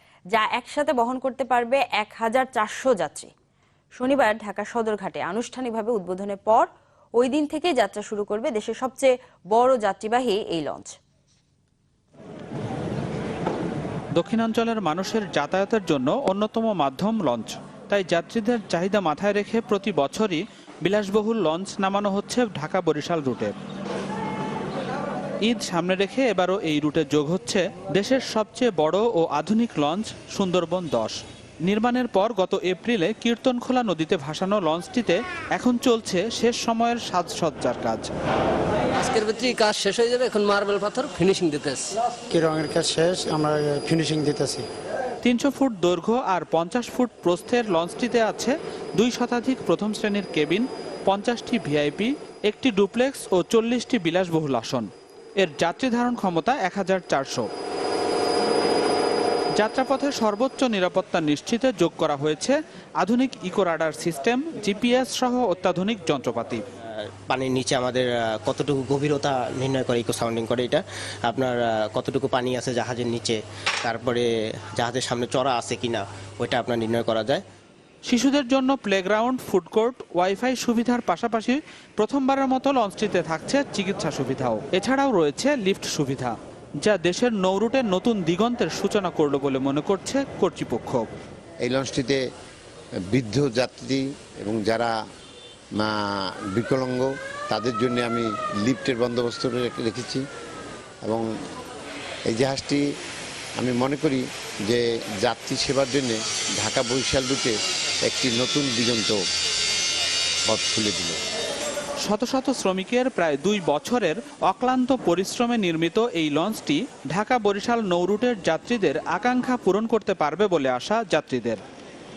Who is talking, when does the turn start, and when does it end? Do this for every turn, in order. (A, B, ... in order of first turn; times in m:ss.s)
0:00.3-0:03.3 A
0:04.0-0:10.9 A
0:14.2-0:23.5 B
0:25.4-0:38.1 B
0:39.0-0:41.9 C
0:42.3-0:44.6 D
0:45.2-0:57.5 B
0:59.6-1:06.6 B
1:06.9-1:17.4 E
1:18.1-1:31.0 B
1:31.6-1:32.2 F
1:33.1-1:34.9 F
1:36.5-1:40.2 F
1:42.3-1:42.8 F
1:43.6-1:47.5 F
1:48.1-1:49.2 F
1:50.5-1:51.2 F
1:52.0-2:01.6 B